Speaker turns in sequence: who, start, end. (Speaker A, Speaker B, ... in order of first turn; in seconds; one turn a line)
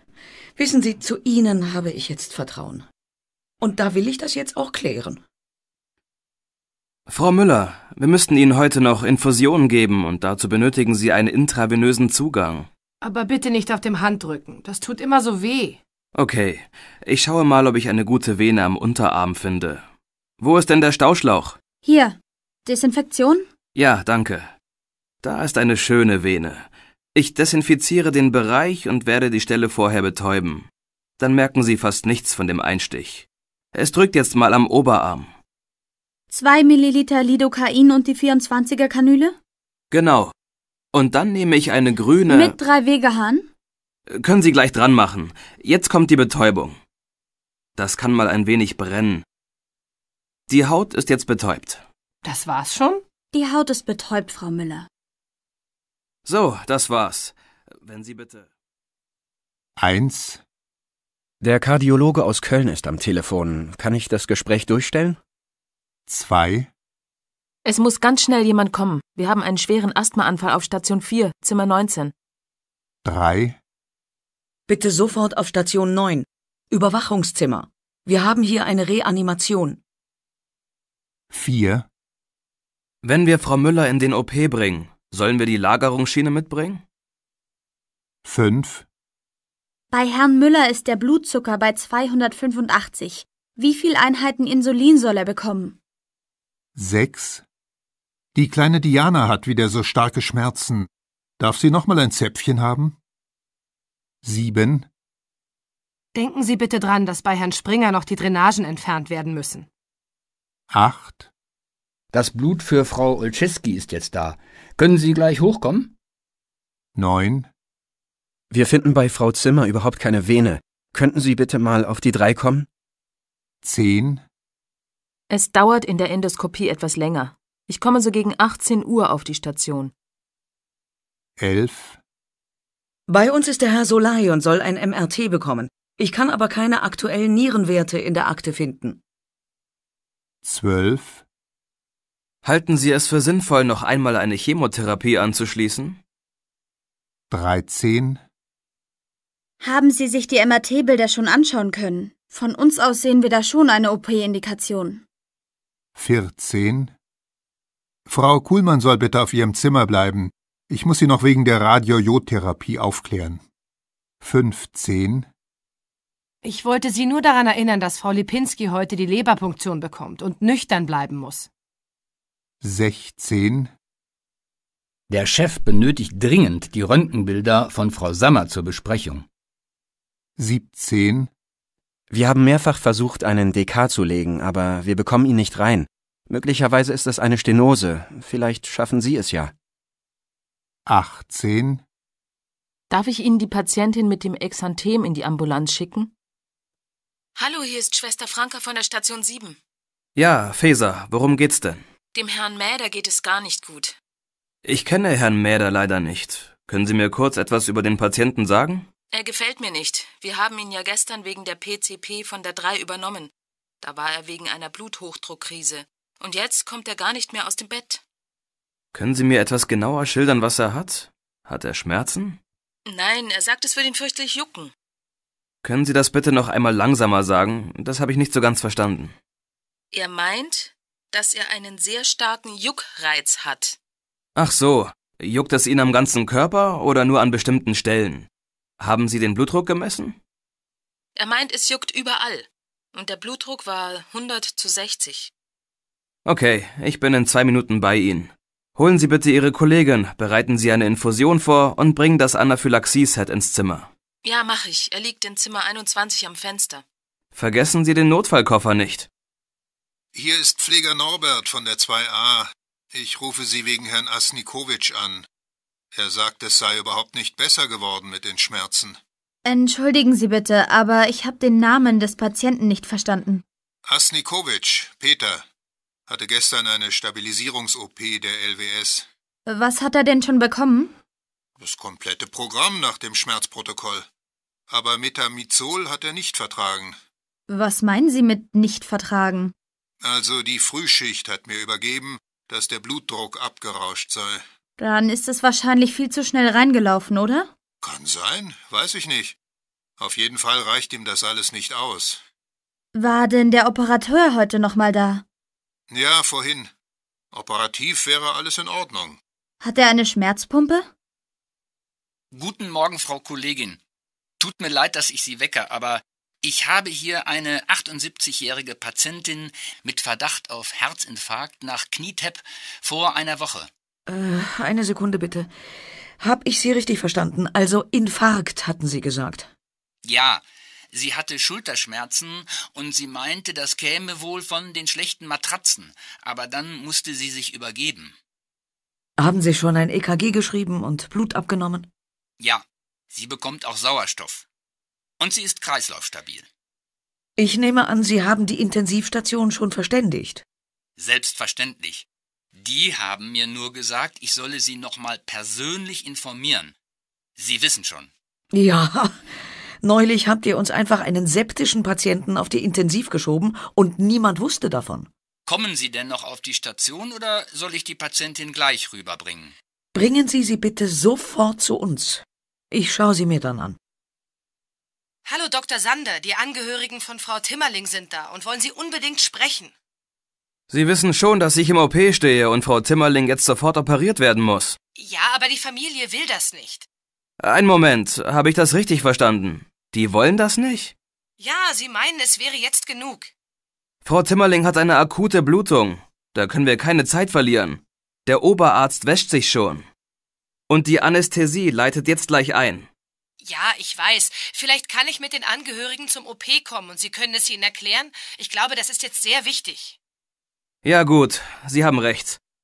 Speaker A: 0.6-2.9
Speaker A: 3.6-5.2
Speaker B: 7.1-12.7
Speaker C: 13.0-15.8
Speaker B: 16.1-19.9
Speaker B: 20.4-21.6
Speaker D: 21.8-23.5
Speaker B: 23.8-24.5
Speaker B: 25.2-30.7
Speaker B: 31.2-35.3
Speaker D: 36.3-39.4
Speaker B: 39.9-40.3
Speaker B: 40.9-42.5
Speaker D: 42.3-43.5
Speaker B: 44.1-46.8
Speaker B: 47.8-49.2
Speaker B: 50.5-51.8
Speaker C: 52.2-53.0
Speaker D: 53.3-54.9
Speaker B: 56.3-58.5
Speaker E: 59.8-60.4
Speaker F: 61.4-65.2
Speaker E: 66.1-66.7
Speaker G: 67.7-72.1
Speaker E: 73.0-73.6
Speaker A: 74.7-79.8
Speaker E: 81.3-81.9
Speaker B: 83.0-86.8
Speaker E: 88.2-88.9
Speaker D: 89.9-95.8
Speaker E: 96.8-97.4
Speaker E: 98.3-100.9
Speaker E: 101.4-103.0
Speaker E: 104.2-104.9
Speaker C: 106.1-109.7
Speaker E: 110.7-111.3
Speaker H: 112.1-115.9
Speaker E: 117.0-117.5
Speaker F: 118.5-122.7
Speaker E: 123.6-124.2
Speaker G: 125.3-129.9
Speaker E: 131.4-132.0
Speaker A: 133.1-139.0
Speaker E: 140.4-141.2
Speaker B: 142.4-146.0
Speaker E: 147.3-148.2
Speaker D: 149.6-155.0
Speaker E: 156.0-156.9
Speaker E: 158.1-163.4
Speaker E: 164.2-165.3
Speaker C: 166.4-171.5
Speaker E: 172.6-173.7
Speaker H: 175.1-179.3
Speaker E: 180.4-181.3
Speaker F: 182.1-189.5
Speaker E: 190.9-191.8
Speaker G: 192.9-196.1
Speaker G: 197.4-199.6
Speaker B: 200.2-201.8
Speaker G: 202.2-204.0
Speaker B: 204.6-208.9
Speaker G: 209.1-213.3
Speaker G: 213.8-218.0
Speaker B: 218.9-222.4
Speaker G: 222.9-224.7
Speaker B: 225.6-229.2
Speaker G: 229.9-233.8
Speaker B: 234.4-238.3
Speaker B: 238.8-240.2
Speaker G: 241.2-245.3
Speaker B: 246.3-253.9
Speaker G: 254.2-256.8
Speaker B: 257.4-259.1
Speaker E: 260.1-265.3
Speaker E: 265.9-269.0
Speaker D: 269.4-273.4
Speaker E: 273.9-275.4
Speaker E: 276.1-279.1
Speaker D: 279.5-280.9
Speaker E: 281.6-284.1
Speaker E: 284.7-287.0
Speaker D: 287.5-289.5
Speaker E: 290.0-294.4
Speaker D: 294.8-297.5
Speaker E: 297.8-299.4
Speaker E: 300.0-302.2
Speaker D: 302.9-305.2
Speaker E: 305.9-306.7
Speaker E: 307.3-309.2
Speaker D: 309.6-310.9
Speaker H: 312.3-313.8
Speaker H: 314.4-323.7
Speaker A: 324.1-325.5
Speaker A: 326.2-329.5
Speaker H: 330.1-338.1
Speaker A: 339.2-341.9
Speaker H: 342.4-344.5
Speaker H: 345.2-346.5
Speaker A: 347.4-350.4
Speaker H: 351.0-356.8
Speaker H: 357.4-358.1
Speaker A: 358.5-359.2
Speaker A: 359.8-365.1
Speaker H: 365.5-369.5
Speaker A: 369.9-373.8
Speaker C: 375.3-379.7
Speaker B: 380.7-384.8
Speaker C: 385.0-386.9
Speaker B: 387.4-390.9
Speaker C: 391.4-393.3
Speaker B: 394.1-399.9
Speaker B: 400.7-402.9
Speaker C: 403.4-410.0
Speaker B: 410.8-412.4